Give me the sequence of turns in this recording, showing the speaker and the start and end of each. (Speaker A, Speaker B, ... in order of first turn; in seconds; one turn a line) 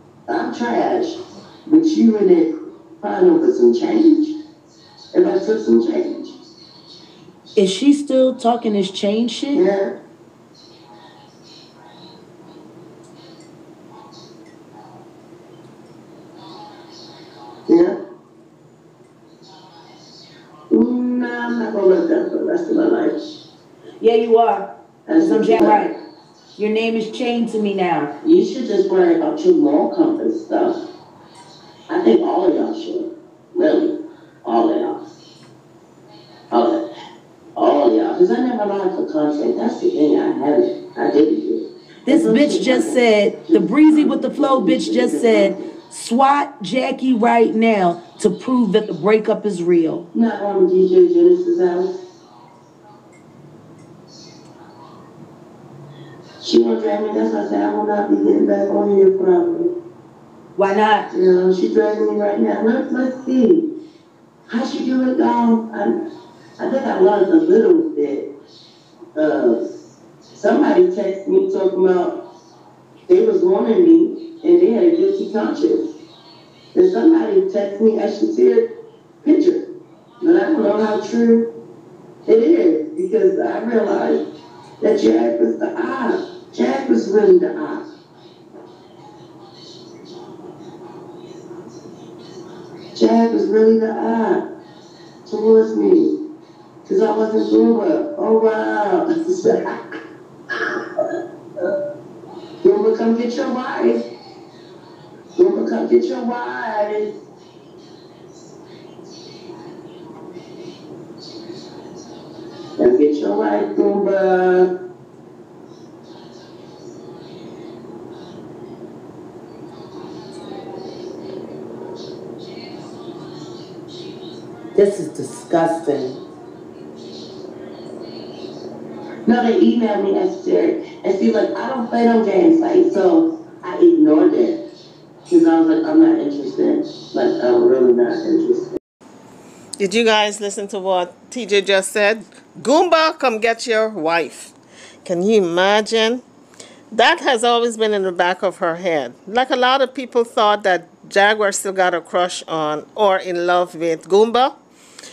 Speaker A: 0.3-4.3
Speaker A: 5.1-6.3
Speaker B: 7.5-9.6
Speaker A: 9.5-9.9
Speaker A: 17.7-17.9
Speaker A: 20.7-23.2
Speaker B: 24.0-25.9
Speaker A: 25.1-25.9
Speaker B: 26.6-28.1
Speaker A: 28.2-30.8
Speaker A: 31.9-35.0
Speaker A: 36.5-36.8
Speaker A: 37.5-45.7
Speaker B: 42.0-50.1
Speaker A: 50.1-52.0
Speaker A: 56.4-59.7
Speaker B: 60.5-61.1
Speaker A: 61.1-63.7
Speaker A: 64.5-66.0
Speaker A: 66.6-68.3
Speaker A: 69.1-69.7
Speaker A: 70.3-72.2
Speaker A: 73.1-75.9
Speaker A: 76.7-78.7
Speaker A: 79.2-79.7
Speaker A: 80.2-81.5
Speaker A: 82.2-84.2
Speaker A: 84.8-87.8
Speaker A: 92.9-94.4
Speaker A: 95.2-96.2
Speaker A: 96.8-99.7
Speaker A: 100.5-101.7
Speaker A: 102.6-104.0
Speaker A: 105.3-107.2
Speaker A: 112.8-114.7
Speaker B: 124.7-126.2
Speaker A: 129.2-134.6
Speaker A: 135.3-138.8
Speaker C: 139.8-146.2
Speaker C: 146.9-154.6